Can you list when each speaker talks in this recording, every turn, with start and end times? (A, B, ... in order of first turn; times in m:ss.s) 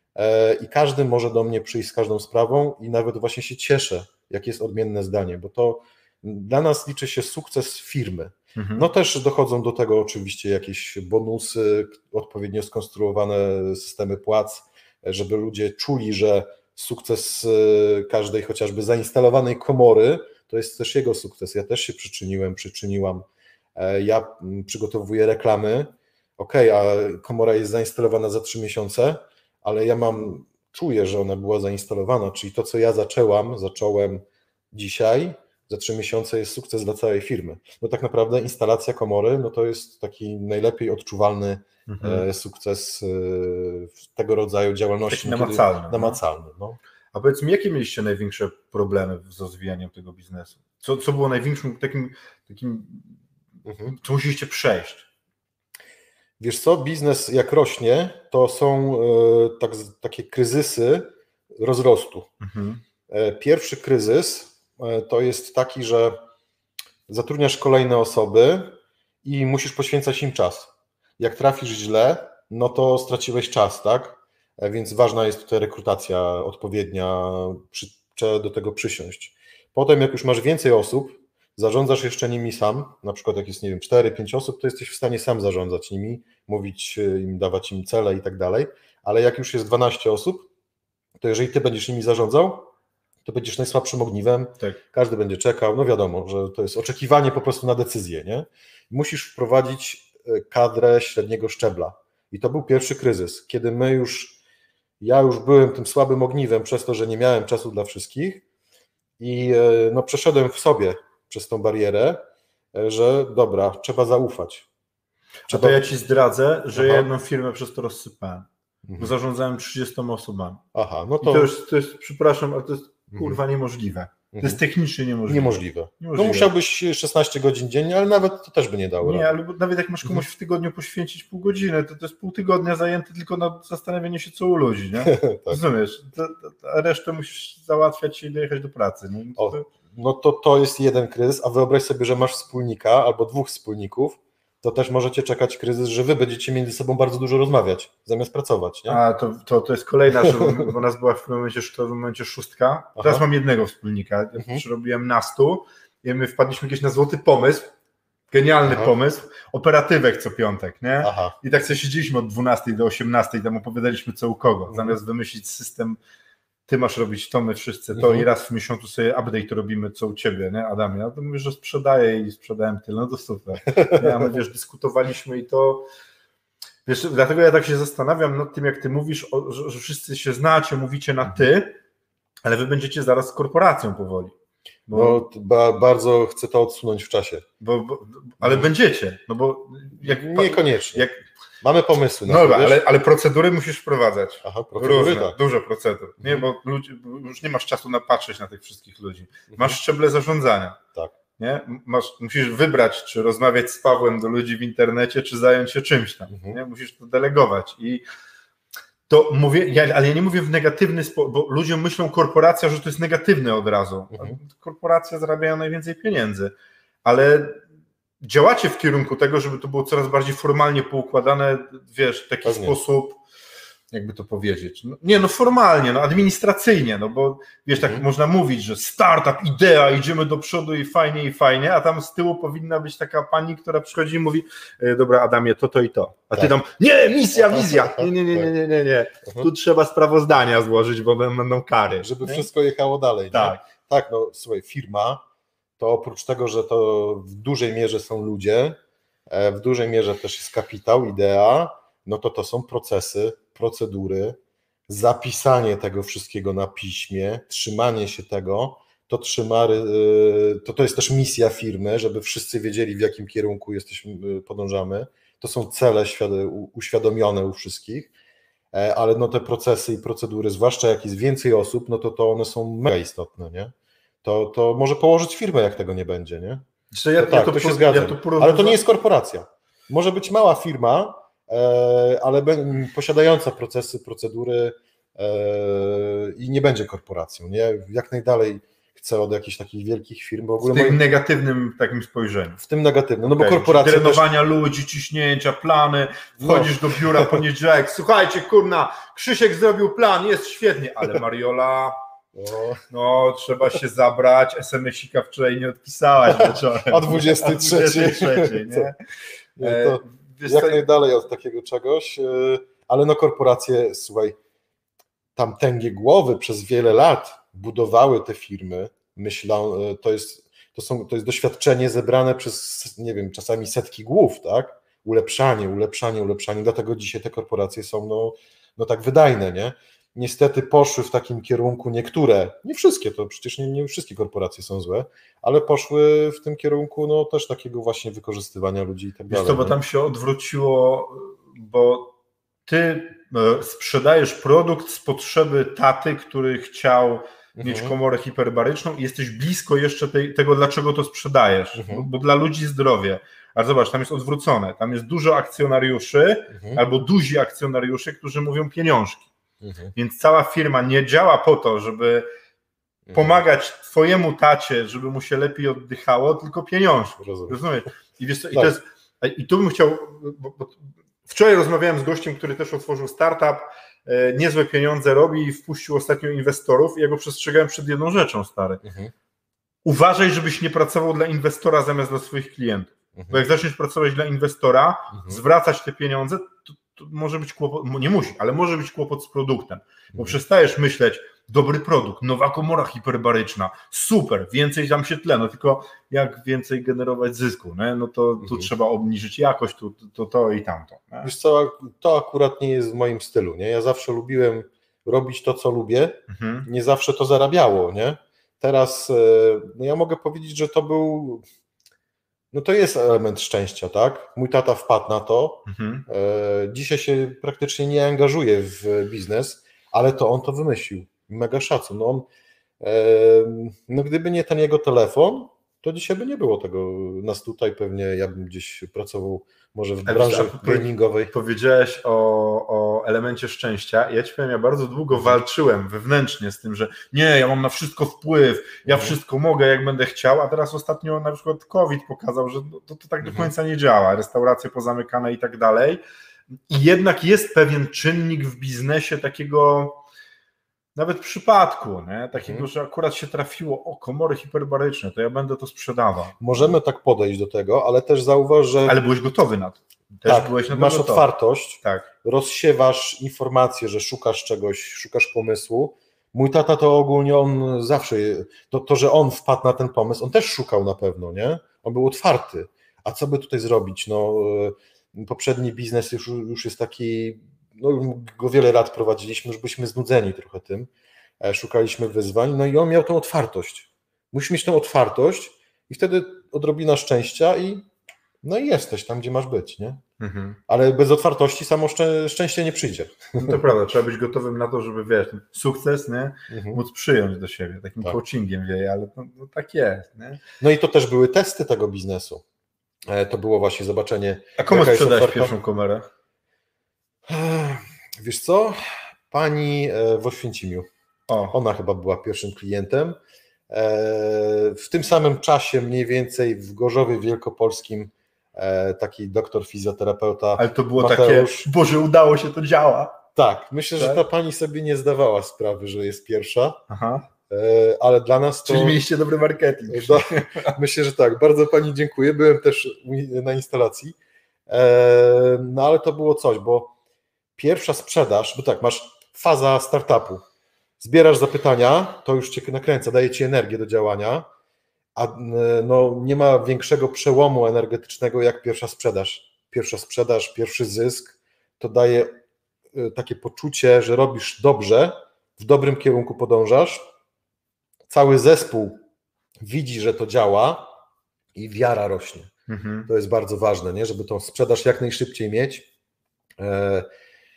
0:00.2-0:46.8 A
0:08.6-0:08.9 B
0:41.9-0:42.3 B
0:45.1-0:46.2 B
0:47.1-0:53.2 B
0:53.6-0:53.9 A
0:53.9-0:55.1 B
0:56.4-1:02.3 A
1:02.4-1:02.8 B
1:03.1-1:06.2 A
1:07.1-1:30.5 A
1:31.2-1:32.7 A
1:33.2-1:44.4 A
1:45.0-1:48.4 A
1:49.2-1:54.7 A
1:55.5-2:00.6 B
1:55.5-1:55.9 A
1:56.7-1:57.0 A
1:58.8-1:59.1 A
2:00.7-2:01.5 A
2:01.2-2:06.5 B
2:03.1-2:03.4 A
2:04.3-2:04.6 A
2:05.3-2:09.3 A
2:09.0-2:19.6 B
2:15.0-2:15.6 A
2:19.4-2:29.0 A
2:28.9-2:37.7 B
2:30.2-2:30.7 A
2:33.0-2:33.2 A
2:34.4-2:34.6 A
2:38.3-2:46.0 B
2:38.6-2:38.9 A
2:41.0-2:41.3 A
2:44.7-2:45.0 A
2:46.7-2:55.9 B
2:47.9-2:48.3 A
2:53.8-2:54.1 A
2:56.8-3:01.8 B
3:02.4-3:04.3 B
3:04.9-3:05.2 B
3:04.9-3:07.4 A
3:07.6-3:11.2 B
3:08.4-3:08.7 A
3:10.0-3:11.0 A
3:11.6-3:12.8 A
3:12.2-3:20.8 B
3:14.4-3:15.4 A
3:19.5-3:19.8 A
3:21.4-3:28.0 B
3:26.3-3:26.6 A
3:29.1-3:36.5 B
3:34.1-3:34.4 A
3:37.0-3:37.6 B
3:38.2-3:43.2 B
3:42.4-3:42.8 A
3:43.9-4:02.5 B
3:47.8-3:48.0 A
3:57.3-3:58.5 A
4:02.0-4:05.2 A
4:03.3-4:03.6 B
4:05.8-4:08.8 A
4:09.3-4:28.1 A
4:28.7-4:33.7 A
4:34.2-4:36.6 A
4:36.9-4:38.8 B
4:37.2-4:51.0 A
4:50.6-4:52.6 B
4:52.6-4:54.2 A
4:53.3-5:02.0 B
4:56.4-4:57.4 A
5:02.3-5:02.8 A
5:02.9-5:09.0 B
5:06.3-5:08.9 A
5:09.6-5:14.4 A
5:09.6-5:10.8 B
5:15.4-5:39.8 A
5:39.3-5:42.1 B
5:42.6-5:59.3 B
5:47.6-5:47.9 A
5:51.7-5:52.1 A
5:56.5-5:56.8 A
5:59.6-5:59.9 A
5:59.9-6:02.3 B
6:03.1-6:03.4 A
6:03.1-6:18.8 B
6:07.2-6:07.6 A
6:18.8-6:19.1 A
6:19.8-6:41.3 B
6:23.2-6:23.4 A
6:25.1-6:25.4 A
6:38.4-6:38.7 A
6:41.2-6:51.4 A
6:46.3-6:46.7 B
6:52.5-7:02.3 A
6:55.7-6:56.0 B
7:02.8-7:11.3 A
7:10.0-7:26.0 B
7:18.8-7:19.2 A
7:23.2-7:23.5 A
7:26.7-7:30.0 B
7:30.9-7:36.4 B
7:32.4-7:32.6 A
7:36.4-7:39.0 A
7:38.8-7:41.3 B
7:40.2-8:07.8 A
8:08.4-8:10.0 A
8:10.2-8:10.6 B
8:10.7-8:13.6 A
8:13.4-8:20.4 B
8:16.5-8:16.8 A
8:20.6-8:22.4 A
8:23.1-8:25.5 A
8:24.6-8:26.1 B
8:27.3-8:30.9 A
8:31.3-8:31.6 B
8:31.5-8:33.2 A
8:33.7-8:41.6 A
8:40.6-8:43.2 B
8:43.3-8:46.8 A
8:44.0-8:44.2 B
8:46.9-8:47.2 B
8:47.5-8:49.0 A
8:48.6-8:50.7 B
8:49.9-8:54.2 A
8:54.7-8:56.9 A
8:57.6-9:00.4 A
9:01.0-9:04.5 A
9:05.1-9:12.3 A
9:12.9-9:17.0 A
9:18.1-9:19.0 A
9:19.6-9:20.9 A
9:21.5-9:22.5 A
9:22.7-9:23.1 B
9:23.1-9:25.9 A
9:26.6-9:27.1 A